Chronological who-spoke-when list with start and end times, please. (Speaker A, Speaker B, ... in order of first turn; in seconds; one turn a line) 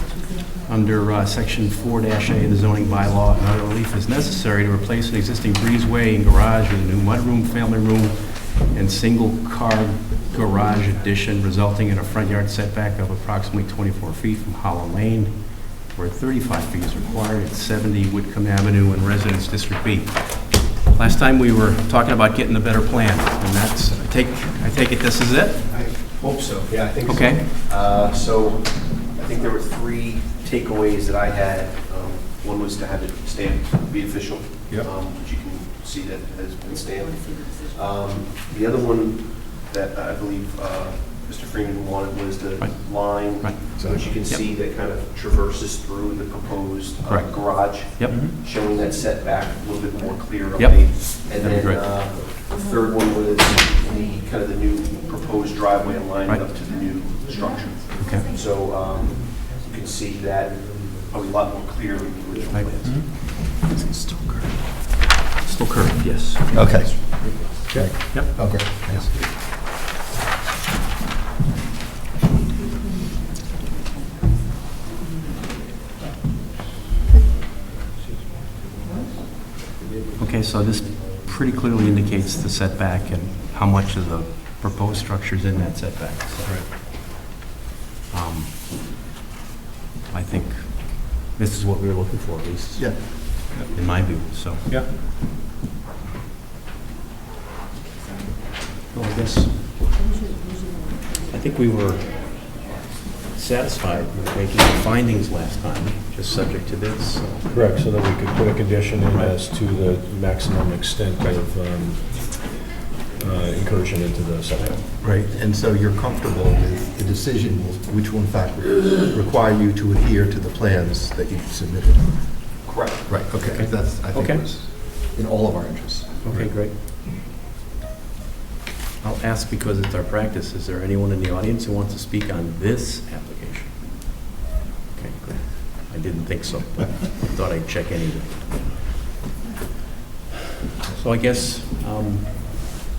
Speaker A: 0.7-25.6
Speaker B: 25.7-63.0
Speaker A: 27.0-27.4
Speaker A: 42.6-43.7
Speaker A: 47.1-48.2
Speaker C: 48.1-48.4
Speaker A: 50.6-51.8
Speaker A: 58.0-58.3
Speaker A: 62.5-66.5
Speaker D: 66.5-69.2
Speaker A: 67.7-69.3
Speaker A: 80.2-86.6
Speaker A: 88.1-88.6
Speaker A: 90.1-94.7
Speaker C: 93.5-94.9
Speaker A: 98.9-99.8
Speaker A: 101.3-102.6
Speaker A: 103.3-107.5
Speaker C: 107.5-112.6
Speaker A: 109.1-109.3
Speaker C: 113.2-114.8
Speaker D: 115.0-122.5
Speaker B: 122.6-123.2
Speaker D: 123.1-126.1
Speaker A: 123.4-124.4
Speaker A: 126.2-126.8
Speaker A: 129.0-133.8
Speaker A: 134.9-138.8
Speaker A: 140.9-142.7